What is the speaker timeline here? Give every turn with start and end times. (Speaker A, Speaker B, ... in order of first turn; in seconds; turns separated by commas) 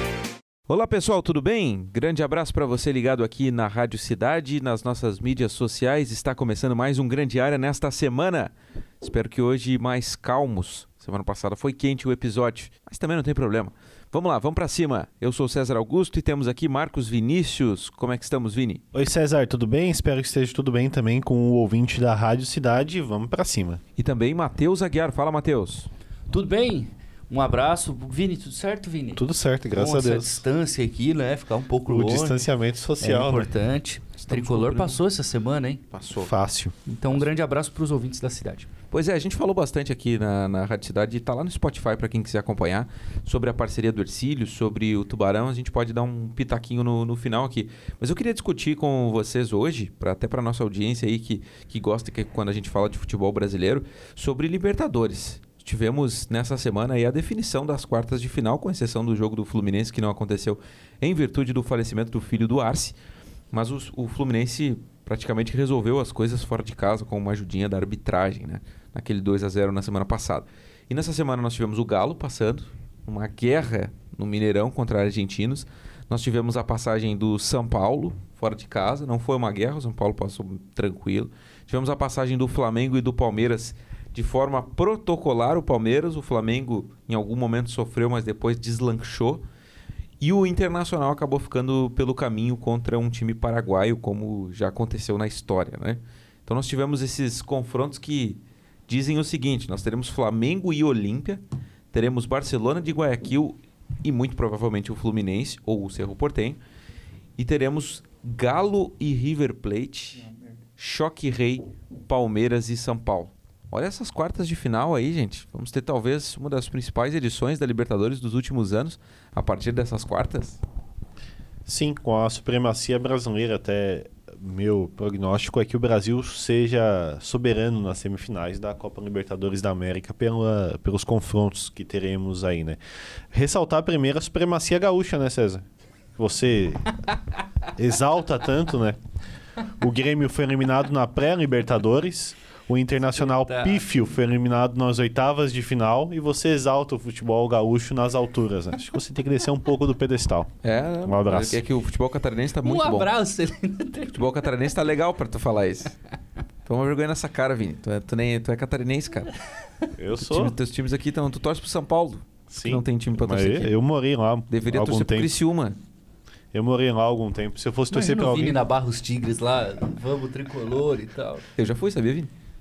Speaker A: 0.7-18.8, Speaker B: 18.9-23.8, Speaker A: 24.0-25.9, Speaker C: 26.3-32.4, Speaker B: 29.1-30.4, Speaker B: 31.9-33.5, Speaker C: 33.0-35.8, Speaker A: 34.2-35.0, Speaker A: 35.9-36.3, Speaker B: 36.1-36.7, Speaker C: 36.9-38.7, Speaker A: 38.9-62.9, Speaker A: 63.5-89.4, Speaker A: 90.2-106.6, Speaker A: 107.4-120.6, Speaker B: 121.7-132.8, Speaker B: 133.3-135.6, Speaker B: 136.2-137.0, Speaker B: 137.7-139.0, Speaker B: 139.8-150.5, Speaker C: 143.2-143.8, Speaker A: 150.6-153.1, Speaker B: 151.0-151.6, Speaker C: 152.6-154.3, Speaker A: 154.1-155.9, Speaker A: 156.7-159.3, Speaker B: 160.0-160.6, Speaker A: 160.2-163.7, Speaker B: 162.5-165.3, Speaker A: 164.5-165.8, Speaker B: 166.5-168.6, Speaker C: 167.9-171.4, Speaker A: 171.6-172.3